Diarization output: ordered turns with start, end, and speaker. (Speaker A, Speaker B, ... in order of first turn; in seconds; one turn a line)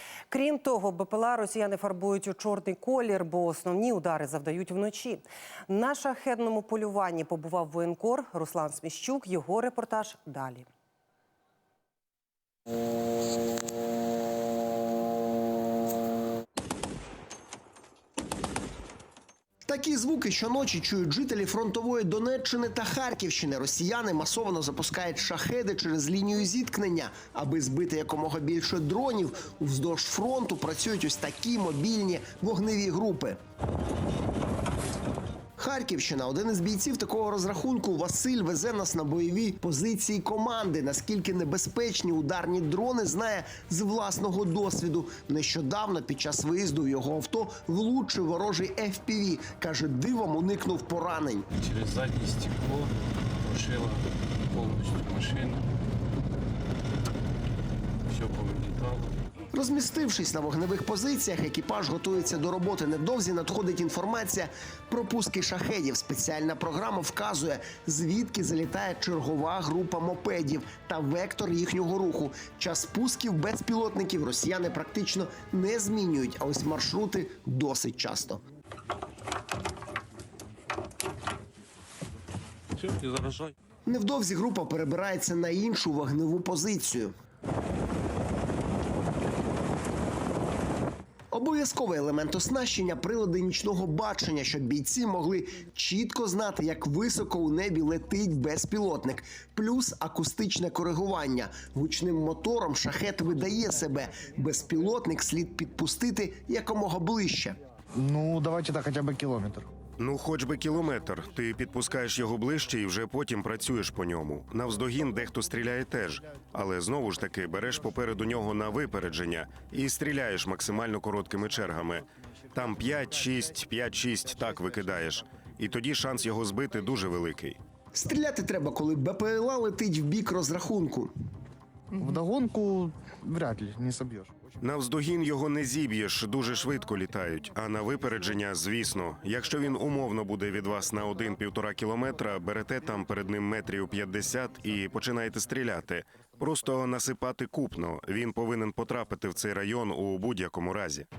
Speaker A: 0.3-10.7
Speaker B: 19.6-33.4
Speaker B: 35.6-51.5
Speaker C: 51.5-55.7
Speaker C: 58.1-59.2
Speaker B: 59.5-78.4
Speaker C: 82.8-83.5
Speaker B: 83.9-87.1
Speaker B: 91.3-107.6
Speaker D: 108.0-109.7
Speaker E: 110.0-127.6
Speaker B: 127.9-131.1
Speaker D: 131.9-134.3
Speaker E: 134.6-151.1